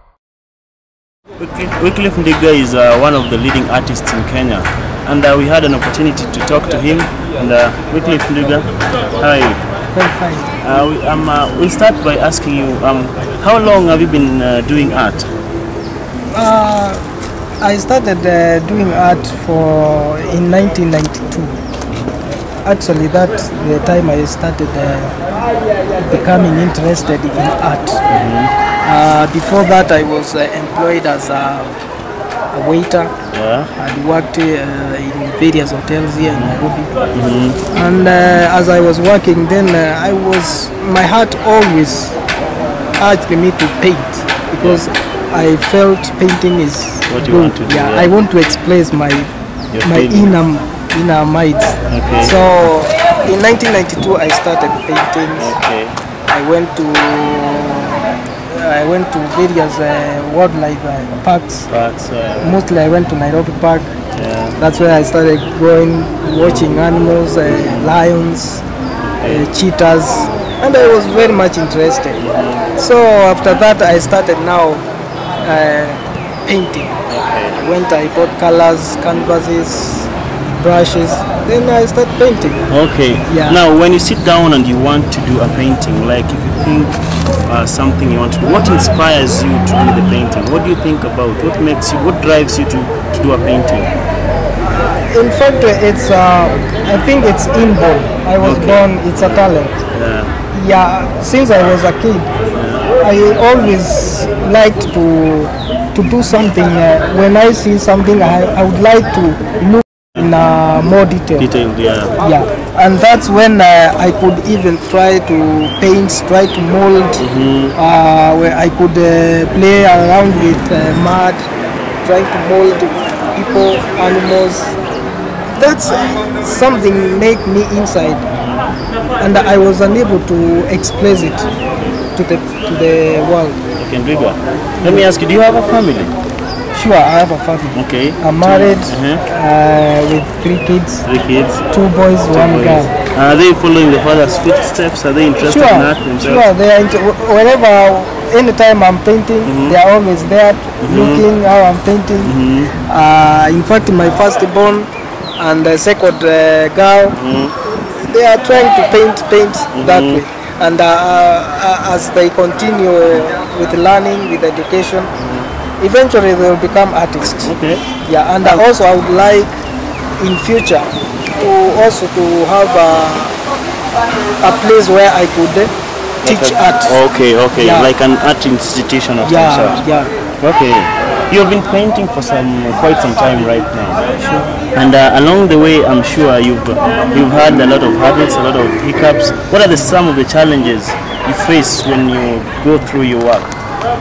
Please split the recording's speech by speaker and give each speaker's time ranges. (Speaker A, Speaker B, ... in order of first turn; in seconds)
Speaker A: 1.4-9.6, 10.6-15.3, 28.1-28.5, 33.3-33.7, 37.1-37.6, 47.1-48.1, 49.7-50.3, 51.9-52.3, 55.4-56.0, 61.7-62.6, 64.1-64.6, 67.5-67.9, 72.2-72.7, 77.1-77.6, 82.7-93.9, 98.4-100.3, 102.5-102.9, 111.4-112.1, 117.2-117.8, 133.8-136.1, 137.7-139.2, 141.0-141.6, 142.3-146.5, 149.4-149.8, 150.8-151.2, 152.2-152.7, 157.1-157.5, 159.7-160.2, 165.2-165.5, 167.3-167.8, 176.2-179.8, 180.4-184.0, 184.7-193.5
Speaker B: 9.9-10.5, 16.3-17.0, 17.6-21.6, 22.6-25.2, 26.1-28.0, 28.8-31.8, 32.5-33.1, 33.7-36.9, 37.7-42.2, 43.0-49.3, 49.8-55.5, 56.3-61.7, 62.4-63.9, 64.6-68.6, 69.2-72.2, 72.7-74.8, 75.4-77.0, 77.5-82.7, 83.3-83.6, 94.8-99.8, 100.5-102.3, 103.0-111.5, 112.2-121.5, 122.0-124.7, 125.5-128.2, 129.2-131.5, 132.1-133.6, 134.8-135.1, 136.7-141.0, 141.7-142.9, 145.4-157.2, 158.1-165.1, 165.8-169.5, 170.2-173.3, 174.4-177.0, 177.6-177.9, 179.2-180.1, 184.2-184.5